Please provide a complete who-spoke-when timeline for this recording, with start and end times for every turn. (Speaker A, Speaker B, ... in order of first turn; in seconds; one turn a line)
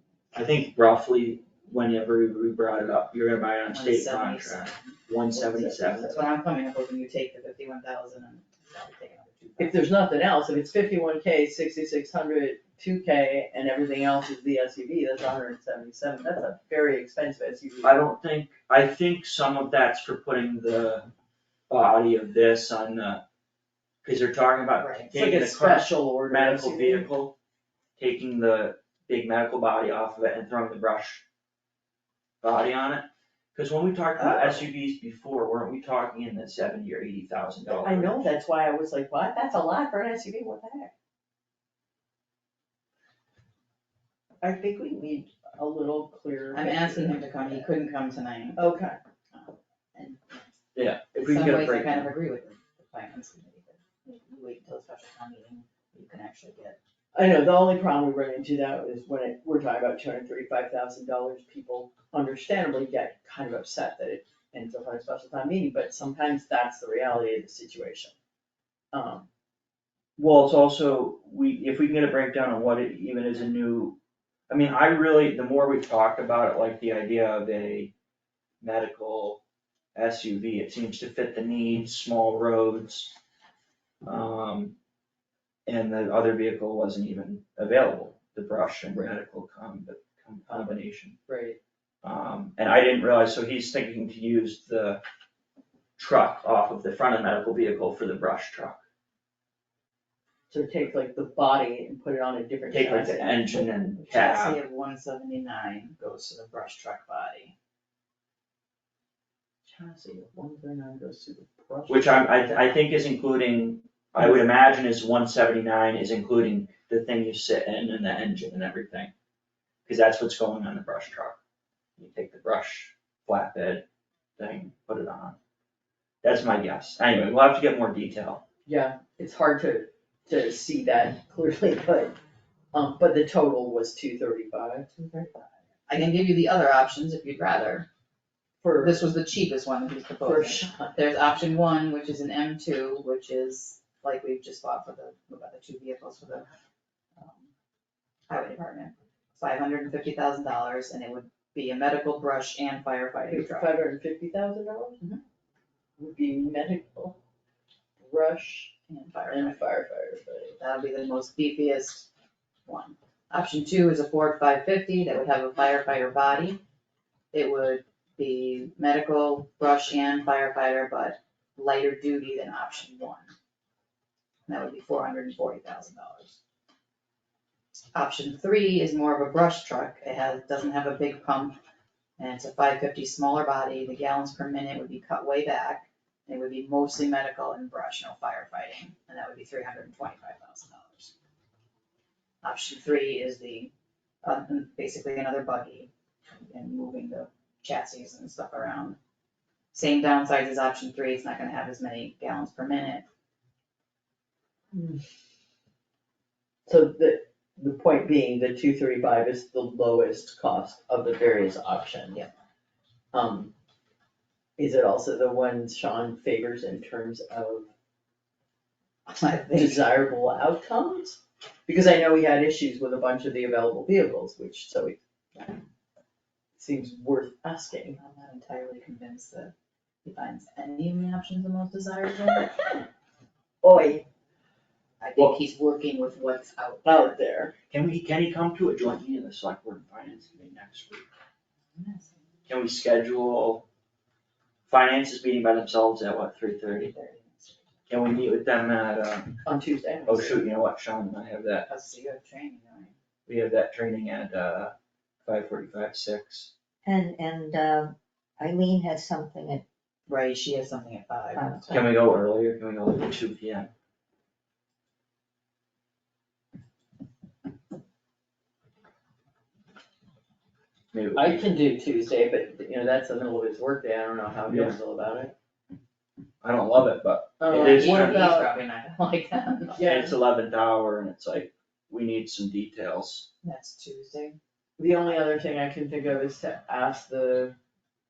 Speaker A: 0.3-6.2
Speaker B: 3.7-5.0
Speaker C: 5.3-6.2
Speaker B: 6.1-9.8
Speaker C: 9.6-18.0
Speaker A: 17.8-21.1
Speaker A: 21.7-23.2
Speaker A: 24.0-27.4
Speaker B: 24.8-25.1
Speaker C: 25.1-27.1
Speaker A: 28.0-31.2
Speaker A: 32.4-38.3
Speaker C: 34.2-34.6
Speaker C: 37.7-40.9
Speaker C: 44.4-47.7
Speaker B: 46.5-48.6
Speaker C: 48.6-49.0
Speaker B: 49.3-50.5
Speaker A: 50.8-52.1
Speaker B: 51.2-56.8
Speaker C: 57.1-68.2
Speaker C: 68.9-69.3
Speaker A: 70.2-77.9
Speaker A: 78.6-79.4
Speaker A: 80.0-83.1
Speaker A: 84.0-84.8
Speaker A: 85.7-91.2
Speaker C: 90.5-91.6
Speaker A: 92.0-95.0
Speaker A: 96.0-98.8
Speaker C: 100.5-103.7
Speaker A: 102.7-104.6
Speaker B: 104.0-107.5
Speaker C: 109.7-112.5
Speaker A: 111.9-119.1
Speaker A: 119.9-121.4
Speaker A: 122.0-123.9
Speaker A: 124.4-125.4
Speaker A: 126.2-128.4
Speaker C: 128.7-132.2
Speaker C: 132.7-135.4
Speaker B: 135.9-137.9
Speaker C: 138.6-139.1
Speaker B: 138.8-146.5
Speaker C: 140.2-141.0
Speaker B: 147.2-147.5
Speaker B: 148.3-153.7
Speaker C: 153.3-155.0
Speaker C: 156.0-157.2
Speaker C: 158.0-158.7
Speaker B: 158.9-159.6
Speaker C: 159.3-160.6
Speaker B: 160.6-162.1
Speaker B: 162.7-166.6
Speaker B: 167.3-173.3
Speaker B: 174.5-176.4
Speaker B: 177.9-181.6
Speaker B: 182.2-191.1
Speaker B: 192.4-193.7
Speaker B: 194.2-199.0
Speaker B: 199.7-203.1
Speaker C: 204.7-205.0
Speaker C: 206.7-212.3
Speaker C: 213.1-213.5
Speaker C: 214.6-217.7
Speaker B: 219.1-219.9
Speaker C: 219.5-225.0
Speaker C: 226.6-228.0
Speaker B: 228.0-229.5
Speaker B: 230.0-232.8
Speaker C: 233.6-234.1
Speaker B: 235.0-237.2
Speaker C: 236.8-237.5
Speaker A: 237.7-241.1
Speaker B: 241.7-242.2
Speaker A: 242.5-243.7
Speaker A: 244.7-246.9
Speaker B: 246.7-247.6
Speaker A: 247.9-249.4
Speaker C: 249.4-250.4
Speaker A: 250.1-251.7
Speaker B: 251.7-252.9
Speaker A: 253.3-254.7
Speaker A: 255.2-256.5
Speaker D: 256.8-259.6
Speaker B: 260.1-261.6
Speaker D: 261.4-261.9
Speaker A: 261.7-263.7
Speaker A: 270.9-271.5
Speaker C: 271.1-275.3
Speaker A: 274.5-274.8
Speaker A: 276.4-278.3
Speaker C: 277.4-278.5
Speaker B: 277.6-279.9
Speaker C: 279.8-280.2
Speaker A: 279.8-283.3
Speaker B: 283.4-284.4
Speaker C: 284.8-287.6